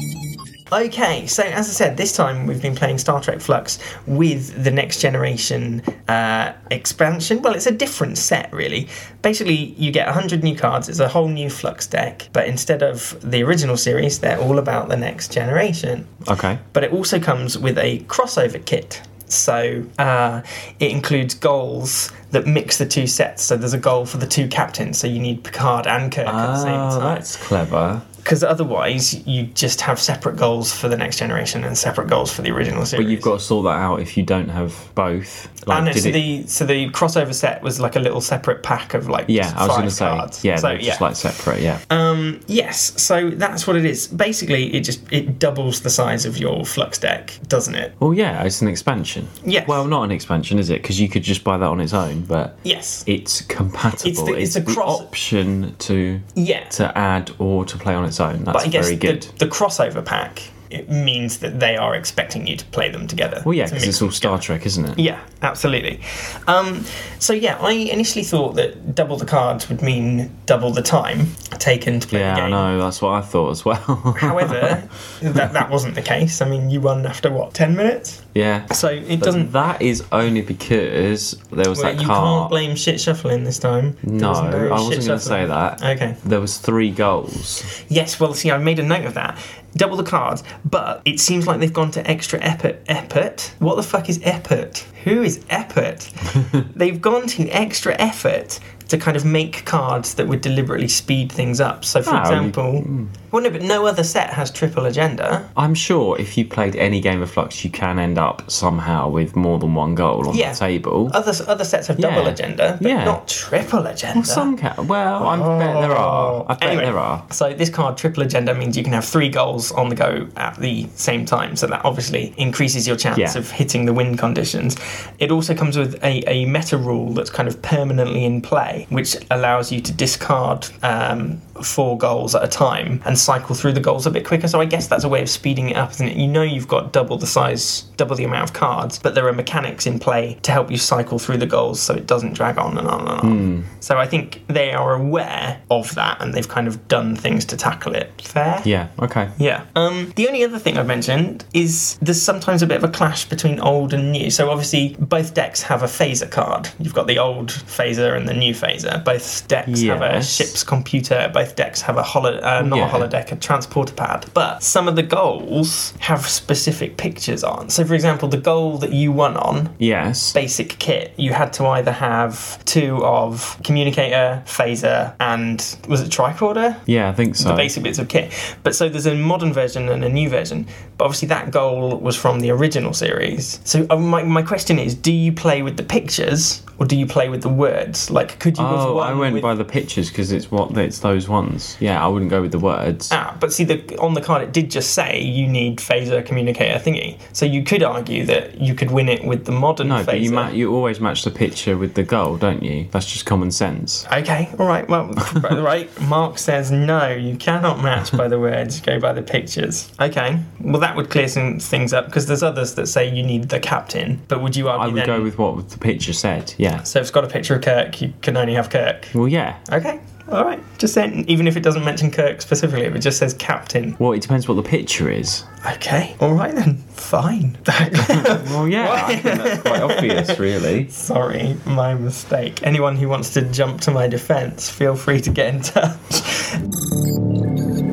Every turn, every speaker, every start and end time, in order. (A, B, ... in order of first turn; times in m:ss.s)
0:00.7-0:16.1 A
0:16.2-0:16.6 B
0:16.7-0:27.2 A
0:26.2-0:28.1 B
0:28.2-0:33.3 A
0:32.9-0:36.2 B
0:35.7-0:41.1 A
0:39.3-0:41.8 B
0:41.9-0:47.9 A
0:48.0-0:59.3 B
0:49.4-0:49.8 A
0:52.6-0:53.0 A
0:54.0-0:55.1 A
0:56.4-0:56.7 A
0:58.5-1:04.4 A
1:03.4-1:05.0 B
1:05.0-1:12.7 A
1:12.1-1:14.8 B
1:14.1-1:19.5 A
1:18.3-1:22.5 B
1:21.7-1:26.2 A
1:24.0-1:27.7 B
1:27.7-1:45.5 A
1:42.0-1:43.1 B
1:45.6-1:51.2 B
1:50.3-1:54.5 A
1:52.0-1:53.2 B
1:54.1-1:57.2 B
1:55.2-2:28.7 A
2:03.1-2:03.4 B
2:23.2-2:23.7 B
2:28.6-2:29.3 B
2:29.4-2:49.8 A
2:39.7-2:40.5 B
2:42.6-2:43.1 B
2:49.8-2:50.4 B
2:50.3-2:56.8 A
2:56.9-2:57.7 B
2:57.4-3:09.5 A
3:08.5-3:13.1 B
3:13.1-3:20.5 A
3:19.8-3:24.0 B
3:24.1-3:35.3 A
3:34.6-3:36.8 B
3:36.8-3:39.1 A
3:39.1-3:39.6 B
3:39.7-3:44.0 A
3:44.0-3:45.4 B
3:45.6-3:56.6 A
3:48.0-3:50.9 B